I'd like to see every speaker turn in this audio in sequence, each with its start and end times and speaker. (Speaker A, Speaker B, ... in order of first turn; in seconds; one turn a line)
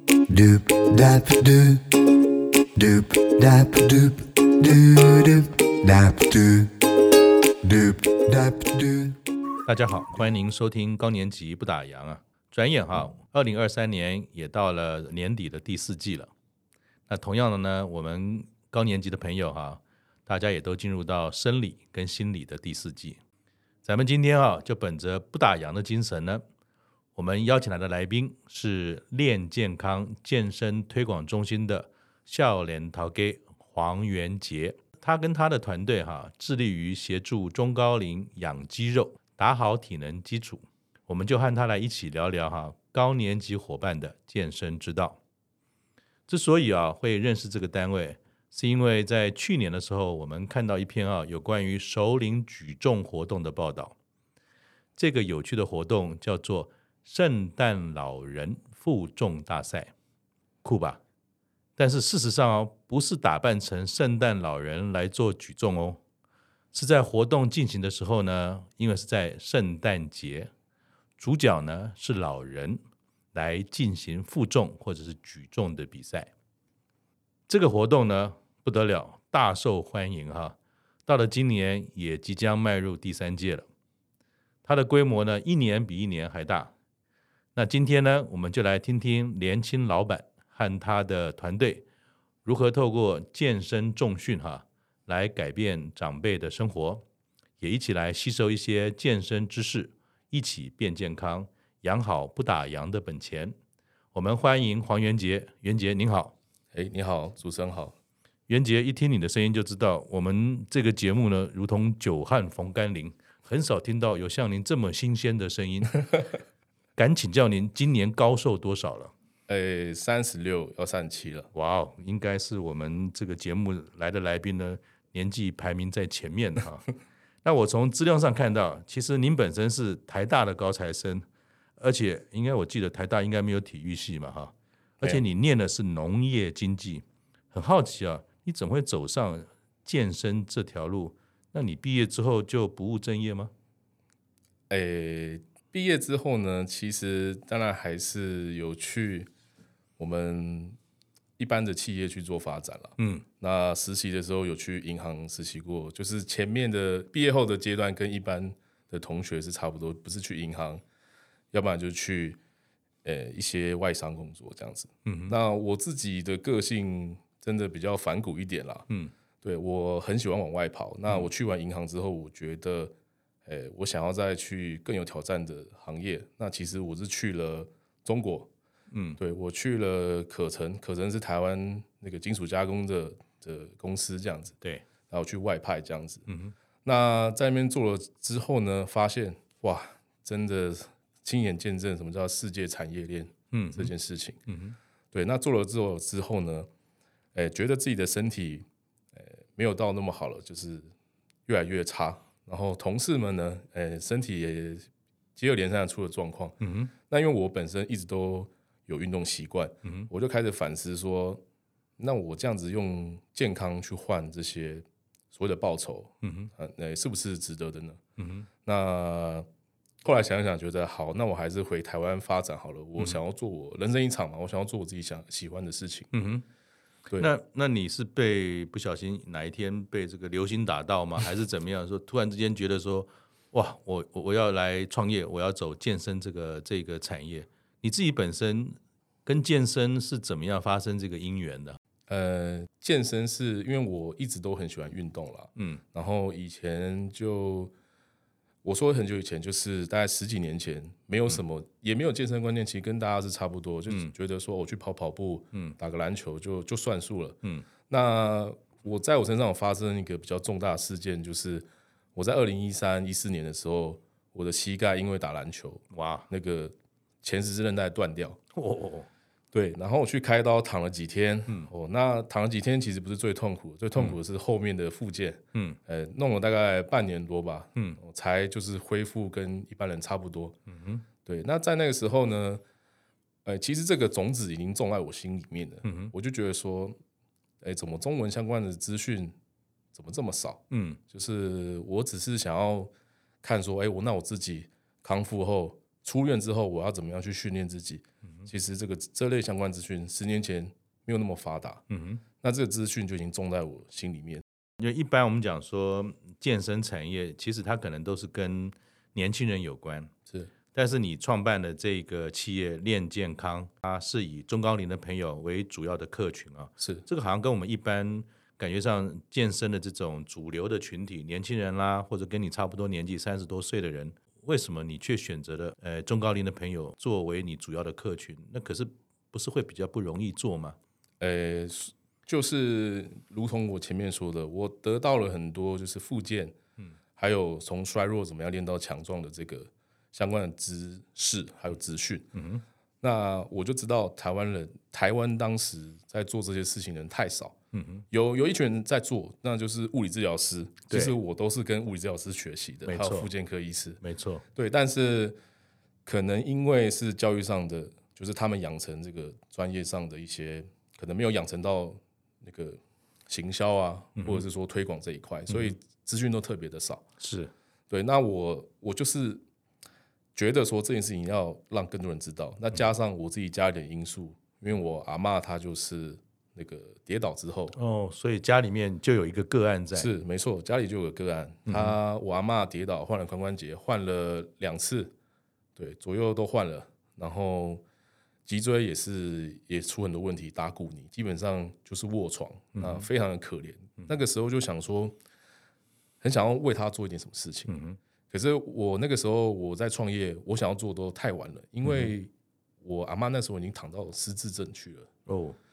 Speaker A: 0.3-2.0
Speaker A: 2.8-6.8
Speaker A: 7.6-9.2
Speaker B: 9.7-16.3
Speaker B: 17.1-23.2
Speaker B: 23.8-26.4
Speaker B: 27.1-45.2
Speaker B: 46.3-54.0
Speaker B: 55.0-59.9
Speaker B: 60.6-61.0
Speaker B: 61.8-66.0
Speaker B: 66.7-70.5
Speaker B: 71.2-72.8
Speaker B: 73.3-76.3
Speaker B: 77.5-83.7
Speaker B: 84.7-86.7
Speaker B: 87.5-91.8
Speaker B: 92.5-97.0
Speaker B: 97.6-103.6
Speaker B: 104.1-106.3
Speaker C: 106.7-108.0
Speaker B: 108.5-116.0
Speaker B: 117.0-119.1
Speaker C: 119.5-121.5
Speaker B: 121.5-126.9
Speaker B: 127.4-131.3
Speaker B: 131.8-143.5
Speaker C: 144.7-149.3
Speaker C: 150.0-150.8
Speaker C: 151.4-160.8
Speaker B: 153.0-153.2
Speaker C: 161.5-162.4
Speaker C: 163.0-168.9
Speaker B: 165.1-165.3
Speaker C: 169.4-172.9
Speaker C: 173.5-178.5
Speaker B: 178.9-179.2
Speaker C: 179.2-184.6
Speaker C: 185.1-186.2
Speaker B: 186.3-186.5
Speaker C: 186.8-194.4
Speaker B: 193.5-193.9
Speaker B: 194.5-194.8
Speaker C: 195.1-196.7
Speaker C: 197.3-198.7
Speaker C: 199.2-200.9
Speaker C: 201.5-211.4
Speaker B: 206.6-206.9
Speaker C: 212.0-218.0
Speaker B: 216.2-216.5
Speaker B: 218.2-218.5
Speaker C: 218.6-219.5
Speaker C: 220.0-226.1
Speaker B: 226.1-226.4
Speaker B: 227.2-241.8
Speaker C: 242.1-247.7
Speaker C: 248.6-268.4
Speaker B: 265.9-266.3
Speaker B: 268.5-269.1
Speaker C: 269.5-280.6
Speaker B: 280.7-281.0
Speaker C: 281.2-282.6
Speaker C: 283.4-287.0
Speaker B: 285.8-286.1
Speaker C: 287.6-289.3
Speaker C: 289.9-292.9
Speaker B: 290.7-291.0
Speaker C: 293.4-301.8
Speaker B: 301.9-302.2
Speaker C: 302.4-304.4
Speaker B: 304.8-310.1
Speaker B: 310.7-330.8
Speaker C: 331.2-336.6
Speaker C: 337.2-342.3
Speaker B: 342.3-342.6
Speaker C: 343.0-347.6
Speaker B: 347.7-348.1
Speaker C: 348.1-354.0
Speaker B: 350.9-351.2
Speaker B: 352.9-353.3
Speaker B: 354.0-354.4
Speaker C: 354.6-355.4
Speaker C: 356.1-367.1
Speaker B: 364.2-364.4
Speaker B: 365.5-365.7
Speaker B: 367.2-367.5
Speaker C: 367.9-369.4
Speaker C: 370.4-377.8
Speaker B: 377.7-380.1
Speaker C: 379.9-385.1
Speaker B: 381.7-382.0
Speaker C: 385.8-387.8
Speaker C: 388.5-395.2
Speaker B: 392.8-393.1
Speaker C: 396.2-397.7
Speaker B: 397.7-398.0
Speaker C: 398.3-402.3
Speaker B: 401.8-402.1
Speaker C: 402.8-405.1
Speaker B: 405.3-405.6